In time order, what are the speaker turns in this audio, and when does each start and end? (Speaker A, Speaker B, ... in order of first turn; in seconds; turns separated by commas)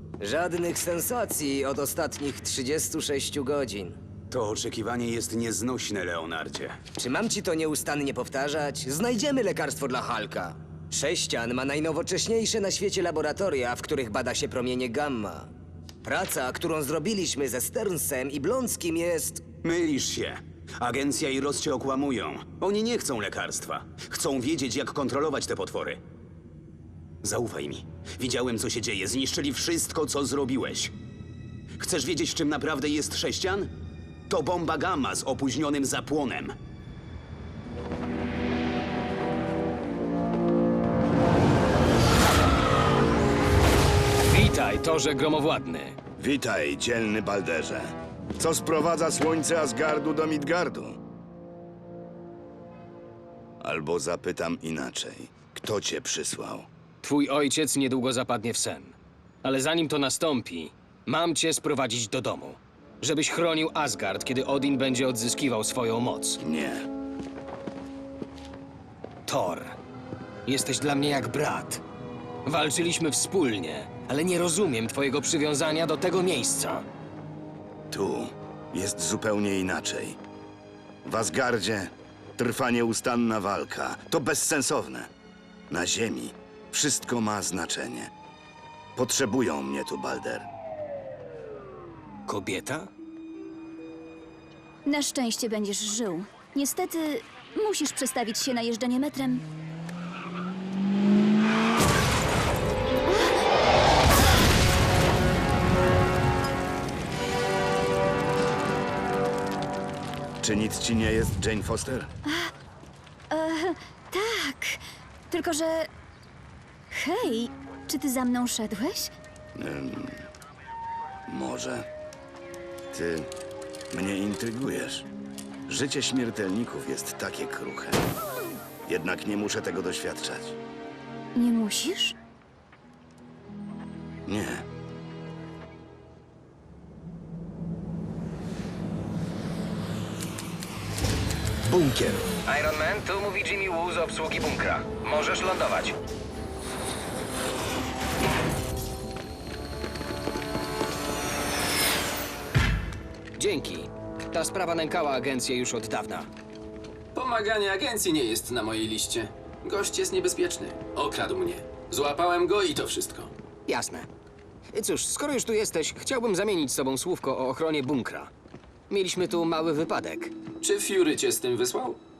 Speaker A: 0.2-4.0, Speaker B: 4.3-6.8, Speaker A: 7.0-15.5, Speaker A: 16.0-19.4, Speaker B: 19.6-26.0, Speaker B: 27.2-30.9, Speaker B: 31.8-33.7, Speaker B: 34.3-36.5, Speaker C: 44.2-46.0, Speaker D: 46.2-51.0, Speaker D: 53.6-56.7, Speaker C: 57.0-66.4, Speaker D: 66.4-66.8, Speaker C: 69.2-69.8, Speaker C: 70.5-71.8, Speaker C: 72.4-76.8, Speaker D: 77.9-80.2, Speaker D: 81.0-85.1, Speaker D: 85.7-88.1, Speaker D: 89.0-90.5, Speaker C: 92.3-92.9, Speaker E: 94.8-99.4, Speaker E: 103.1-103.3, Speaker D: 110.4-112.1, Speaker E: 113.3-114.8, Speaker E: 115.3-115.9, Speaker E: 116.9-119.1, Speaker D: 119.5-120.2, Speaker D: 121.3-121.8, Speaker D: 122.9-123.3, Speaker D: 123.9-125.1, Speaker D: 125.7-128.0, Speaker D: 128.9-130.6, Speaker E: 131.3-132.2, Speaker D: 134.3-134.6, Speaker D: 141.7-142.2, Speaker C: 142.4-146.0, Speaker C: 153.4-156.3, Speaker F: 157.2-163.3, Speaker C: 163.7-164.1, Speaker C: 164.7-168.3, Speaker C: 168.9-170.3, Speaker F: 170.6-172.0